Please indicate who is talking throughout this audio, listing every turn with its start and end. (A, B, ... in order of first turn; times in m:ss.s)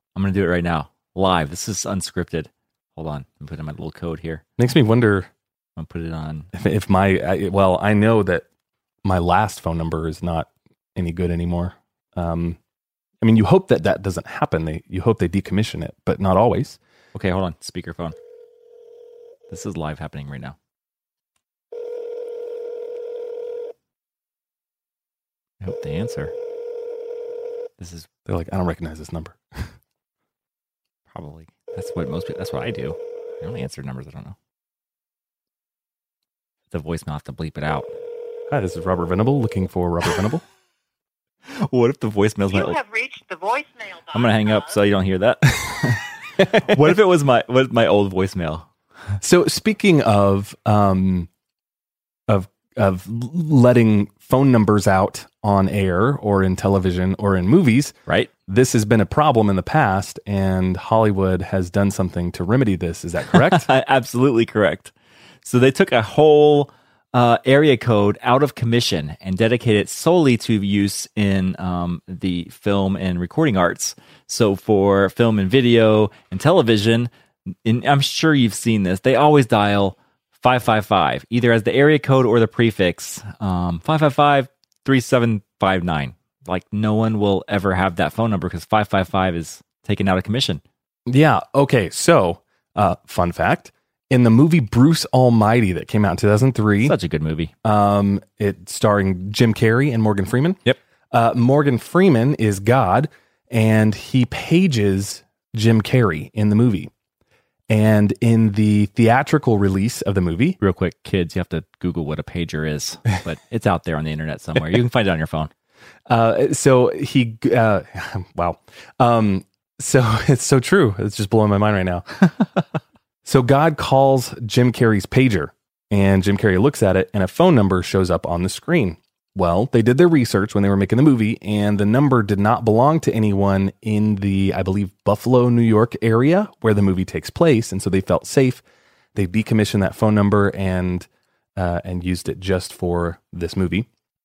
0:00.1-0:04.4 A
0:04.6-0:05.3 B
0:05.8-0:06.5 A
0:06.5-0:08.4 B
0:09.0-0:12.6 B
0:13.2-0:16.8 B
0:17.1-0:18.2 A
0:19.5-0:20.6 A
0:25.6-0:26.3 A
0:27.8-0:28.1 A
0:28.3-0:29.7 B
0:31.1-0:34.4 A
0:36.7-0:37.9 A
0:38.5-0:40.4 B
0:41.6-0:42.8 A
0:42.5-0:44.8 C
0:44.1-0:48.7 A
0:49.2-0:51.3 B
0:52.3-0:58.0 B
0:58.5-1:03.7 B
1:03.3-1:04.9 A
1:05.4-1:17.1 A
1:17.6-1:30.6 A
1:31.1-1:37.0 B
1:36.8-1:37.5 A
1:37.6-1:40.6 B
1:41.1-1:46.9 B
1:47.7-1:50.6 B
1:50.6-1:55.5 A
1:56.1-2:02.0 B
2:03.2-2:18.6 B
2:19.1-2:23.9 B